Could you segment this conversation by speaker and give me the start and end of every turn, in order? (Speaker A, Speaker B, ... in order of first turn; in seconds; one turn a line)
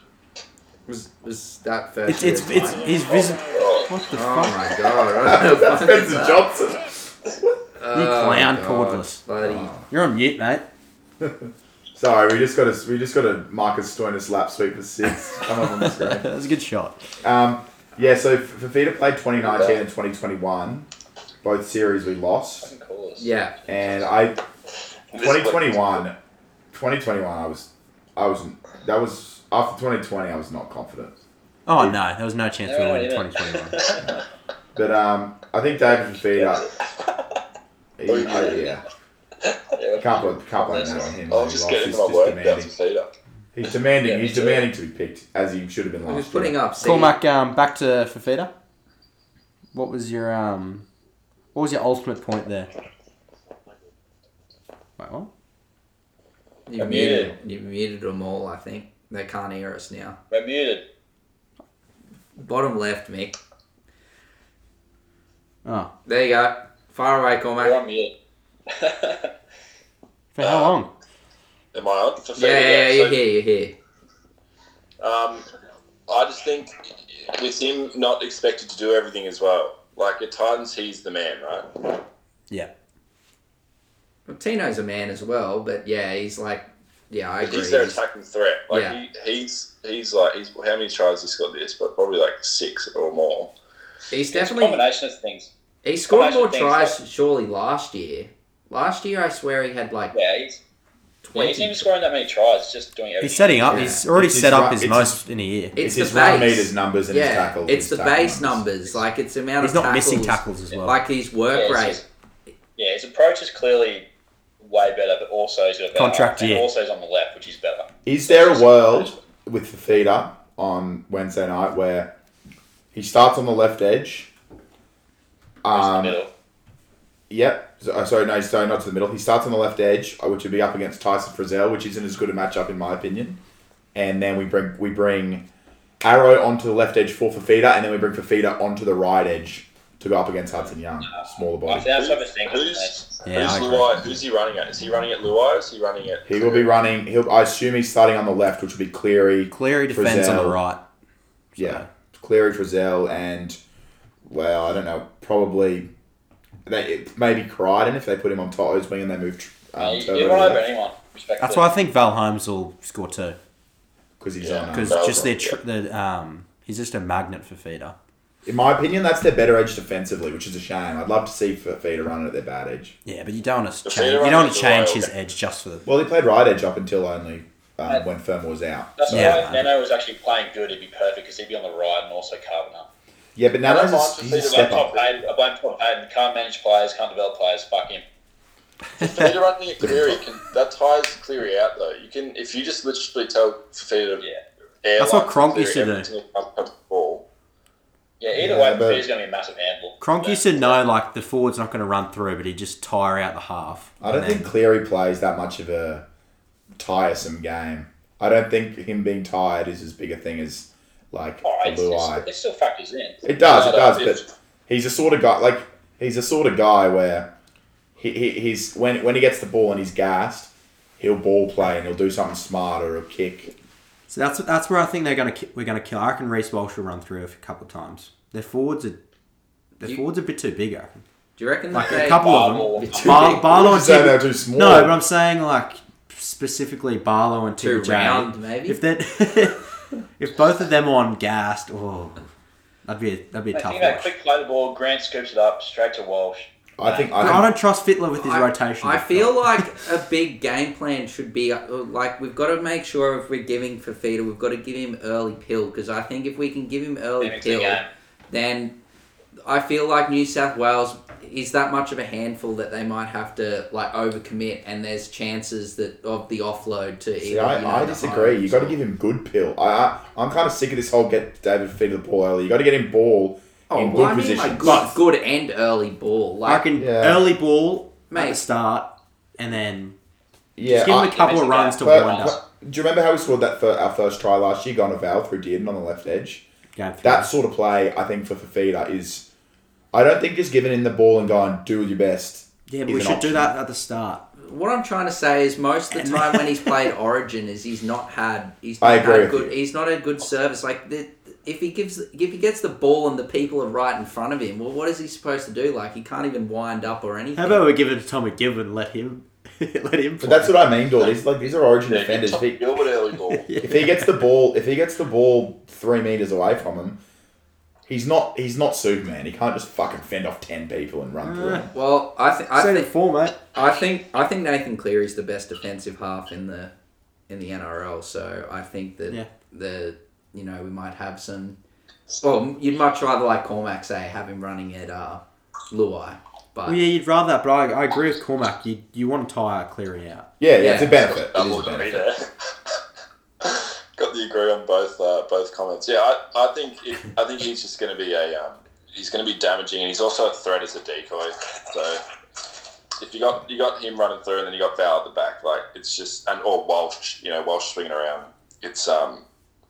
Speaker A: 0.9-2.9
Speaker B: 2.1-4.8
Speaker C: 3.1-3.9
Speaker A: 4.1-6.4
Speaker D: 5.2-7.6
Speaker A: 7.8-9.7
Speaker B: 7.9-9.2
Speaker D: 9.4-9.9
Speaker B: 9.9-10.6
Speaker D: 11.2-16.3
Speaker B: 15.4-17.0
Speaker D: 17.2-20.9
Speaker D: 21.4-22.7
Speaker E: 22.6-23.3
Speaker A: 23.2-23.5
Speaker D: 23.7-24.4
Speaker D: 25.1-26.1
Speaker C: 25.1-25.7
Speaker D: 26.7-31.1
Speaker B: 31.7-33.9
Speaker E: 32.6-34.2
Speaker D: 34.7-36.7
Speaker D: 38.0-38.8
Speaker C: 38.1-38.7
Speaker E: 38.2-38.6
Speaker E: 39.8-41.1
Speaker D: 40.0-42.7
Speaker C: 41.3-43.1
Speaker D: 43.5-46.6
Speaker E: 44.0-44.7
Speaker A: 46.1-47.2
Speaker B: 46.8-48.5
Speaker B: 49.7-50.8
Speaker B: 51.5-52.7
Speaker B: 55.0-55.3
Speaker A: 56.7-60.2
Speaker E: 56.8-57.3
Speaker E: 60.3-60.8
Speaker A: 62.4-63.4
Speaker B: 65.6-65.9
Speaker A: 66.0-67.8
Speaker E: 67.6-68.1
Speaker E: 68.7-69.3
Speaker B: 70.3-70.9
Speaker C: 70.4-70.7
Speaker C: 71.7-73.2
Speaker A: 72.3-73.7
Speaker C: 75.0-75.4
Speaker C: 76.1-82.0
Speaker A: 84.3-88.0
Speaker C: 87.4-93.5
Speaker A: 88.7-89.0
Speaker A: 94.1-94.8
Speaker E: 94.3-95.5
Speaker A: 95.8-100.1
Speaker E: 96.1-97.0
Speaker E: 100.1-100.6
Speaker A: 101.2-101.8
Speaker E: 101.3-103.8
Speaker B: 103.2-105.8
Speaker D: 103.7-105.2
Speaker A: 103.7-104.0
Speaker D: 105.7-108.6
Speaker A: 105.8-112.0
Speaker B: 109.6-111.0
Speaker E: 111.5-112.0
Speaker E: 112.8-114.1
Speaker E: 114.6-119.2
Speaker B: 115.9-116.7
Speaker D: 118.0-122.1
Speaker D: 122.9-124.3
Speaker D: 125.6-126.2
Speaker E: 125.7-126.3
Speaker D: 127.3-133.4
Speaker D: 133.9-135.4
Speaker D: 136.0-141.9
Speaker E: 141.1-143.1
Speaker C: 141.9-146.7
Speaker B: 143.2-144.1
Speaker D: 146.2-150.6
Speaker B: 149.5-150.8
Speaker B: 151.5-151.9
Speaker D: 151.6-153.6
Speaker D: 154.2-155.9
Speaker D: 156.7-160.7
Speaker E: 159.8-161.7
Speaker B: 161.4-163.4
Speaker D: 164.2-165.3
Speaker C: 164.4-165.6
Speaker B: 164.7-167.9
Speaker D: 168.4-172.9
Speaker B: 173.0-175.9
Speaker C: 173.8-175.1
Speaker D: 175.8-179.6
Speaker E: 179.0-182.9
Speaker B: 179.1-179.7
Speaker D: 183.3-184.9
Speaker C: 183.6-185.2
Speaker E: 184.5-188.0
Speaker B: 189.0-189.3
Speaker C: 189.0-194.2
Speaker D: 189.8-190.2
Speaker C: 194.8-197.2
Speaker B: 195.0-196.1
Speaker E: 198.2-200.8
Speaker D: 198.3-199.0
Speaker B: 200.0-204.5
Speaker D: 204.0-206.0
Speaker D: 206.8-212.3
Speaker E: 211.4-213.3
Speaker D: 213.2-217.3
Speaker C: 213.4-214.2
Speaker D: 218.0-223.5
Speaker B: 224.1-229.0
Speaker B: 229.8-231.0
Speaker A: 231.4-233.5
Speaker B: 231.7-239.6
Speaker E: 231.8-233.4
Speaker D: 233.1-235.0
Speaker A: 237.6-238.8
Speaker B: 240.2-242.3
Speaker B: 242.8-244.1
Speaker E: 243.5-247.3
Speaker D: 246.8-247.5
Speaker B: 247.2-249.7
Speaker A: 248.2-258.7
Speaker E: 257.2-257.9
Speaker A: 259.4-268.8
Speaker D: 267.2-274.9
Speaker A: 273.7-276.7
Speaker B: 274.6-275.0
Speaker B: 276.4-279.9
Speaker D: 276.8-277.2
Speaker A: 278.1-278.4
Speaker D: 280.6-286.4
Speaker B: 280.6-282.4
Speaker E: 281.0-282.4
Speaker B: 286.8-287.3
Speaker D: 287.0-289.2
Speaker D: 289.9-293.5
Speaker B: 292.7-294.2
Speaker A: 294.4-307.6
Speaker B: 295.9-296.9
Speaker D: 298.8-299.6
Speaker B: 307.4-310.5
Speaker D: 310.2-312.6
Speaker C: 311.9-313.4
Speaker B: 313.2-314.2
Speaker D: 313.6-317.0
Speaker D: 317.9-321.7
Speaker B: 321.2-321.7
Speaker A: 321.7-322.9
Speaker B: 322.5-323.4
Speaker A: 323.5-326.7
Speaker A: 327.3-331.6
Speaker A: 332.2-336.8
Speaker B: 336.6-340.3
Speaker D: 340.4-342.1
Speaker A: 340.6-340.9
Speaker C: 340.9-342.3
Speaker C: 343.4-352.0
Speaker C: 353.0-359.2